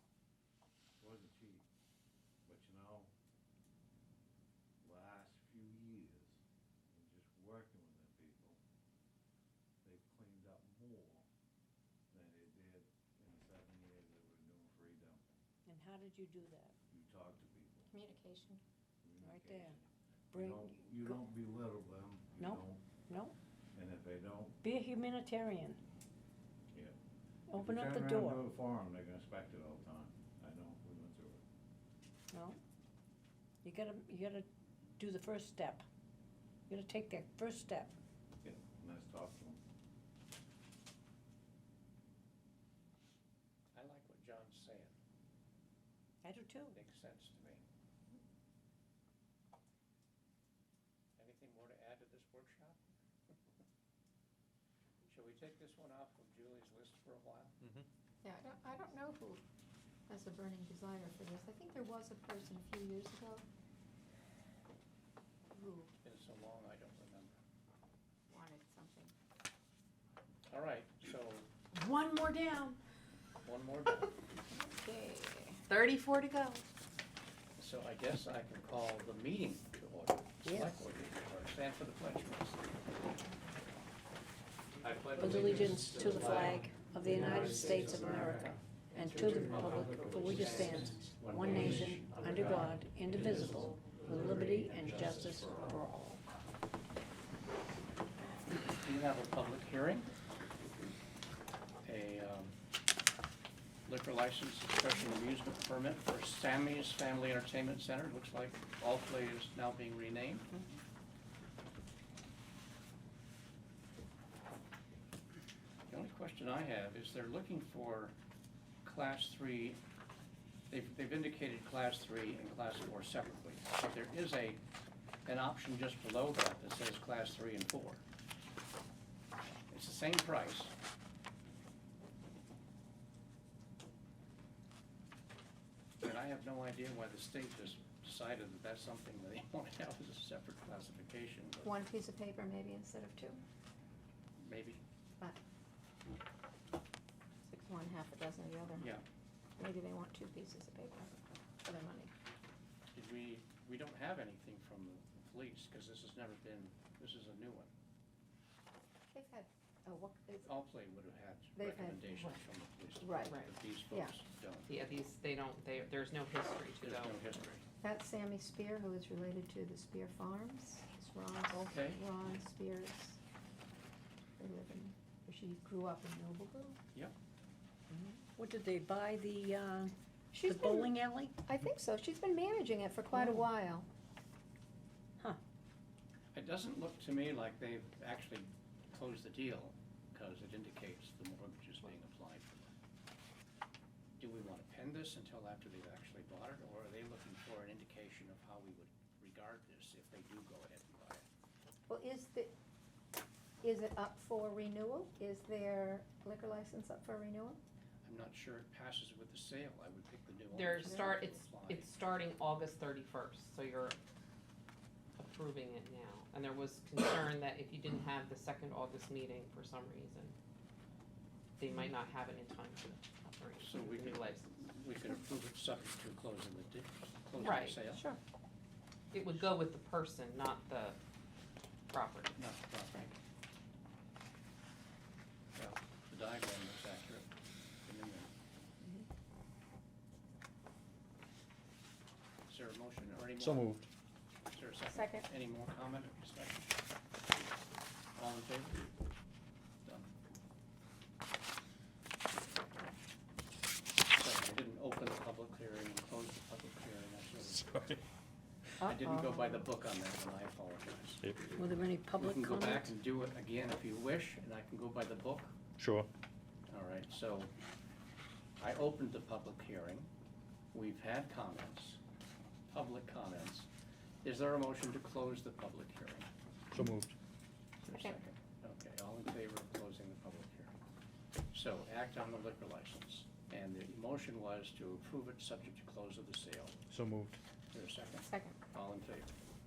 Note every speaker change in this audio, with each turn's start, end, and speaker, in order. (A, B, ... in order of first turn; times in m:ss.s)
0:01.0-0:01.7 A
0:02.4-0:03.1 A
0:04.8-0:08.6 A
0:09.8-0:11.3 A
0:12.1-0:15.4 A
0:15.7-0:16.8 B
0:16.9-0:17.9 A
0:17.9-0:18.6 C
0:19.0-0:22.8 A
0:19.2-0:19.8 B
0:20.3-0:21.1 B
0:22.4-0:23.3 B
0:23.7-0:24.6 A
0:24.6-0:25.8 B
0:27.5-0:28.4 B
0:27.5-0:31.4 A
0:32.3-0:32.6 B
0:33.6-0:34.5 B
0:35.0-0:35.8 B
0:36.7-0:38.0 B
0:38.4-0:39.6 A
0:43.8-0:44.9 D
0:46.2-0:46.8 B
0:46.7-0:47.6 D
0:51.2-0:52.8 D
0:55.1-0:57.6 D
0:58.2-0:59.4 C
1:00.1-1:03.4 C
1:05.5-1:05.9 C
1:06.0-1:07.4 D
1:08.3-1:09.1 C
1:10.5-1:11.5 D
1:13.4-1:14.2 D
1:14.5-1:15.6 C
1:15.7-1:16.6 E
1:17.6-1:22.7 D
1:20.4-1:20.9 B
1:24.8-1:35.7 D
1:25.2-1:36.2 B
1:25.3-1:25.7 F
1:27.1-1:28.3 F
1:29.2-1:32.7 F
1:33.3-1:35.7 F
1:38.5-1:40.1 D
1:41.8-1:42.6 D
1:43.9-1:50.5 D
1:55.9-1:58.1 D
1:58.8-1:59.8 D
2:00.7-2:04.6 D
2:05.3-2:08.0 D
2:09.7-2:10.7 D
2:16.0-2:21.8 D
2:21.6-2:23.4 C
2:24.4-2:24.8 D
2:27.4-2:28.9 C
2:28.8-2:29.0 D
2:29.6-2:31.1 C
2:31.6-2:32.1 C
2:32.9-2:37.7 D
2:39.1-2:40.5 C
2:40.4-2:44.7 D
2:41.6-2:42.3 C
2:43.0-2:44.2 C
2:44.7-2:47.2 E
2:46.8-2:47.6 D
2:47.8-2:53.2 C
2:51.5-2:52.0 D
2:54.4-2:56.8 C
2:57.9-3:01.4 B
3:00.3-3:00.9 C
3:01.5-3:03.9 C
3:03.1-3:03.4 B
3:06.3-3:12.7 D
3:14.2-3:21.2 D
3:21.9-3:22.5 C
3:23.6-3:27.6 C
3:28.0-3:32.0 D
3:30.5-3:34.0 E
3:30.8-3:31.3 C
3:35.2-3:40.4 E
3:41.6-3:44.5 E
3:43.6-3:48.0 D
3:47.4-3:47.8 E
3:47.9-3:48.2 C
3:49.1-3:51.0 E
3:49.2-3:49.5 D
3:51.9-3:52.4 E
3:52.4-3:53.2 D
3:55.6-3:57.3 D
3:57.8-3:58.3 D
4:02.5-4:03.8 D
4:03.4-4:03.9 F
4:04.5-4:06.7 D
4:04.9-4:05.3 C
4:08.2-4:08.9 D
4:14.1-4:17.7 D
4:17.5-4:18.0 F
4:18.8-4:19.7 C
4:18.8-4:21.2 D
4:21.5-4:22.9 B
4:22.2-4:25.6 D
4:25.8-4:26.1 F
4:26.7-4:27.5 D
4:28.6-4:30.1 D
4:30.7-4:32.0 D
4:32.7-4:33.7 D
4:34.2-4:36.3 D
4:36.7-4:37.2 F
4:37.8-4:40.7 D
4:37.9-4:38.2 C
4:41.5-4:46.8 D
4:46.9-4:47.4 F
4:47.7-4:49.3 D
4:48.2-4:48.6 C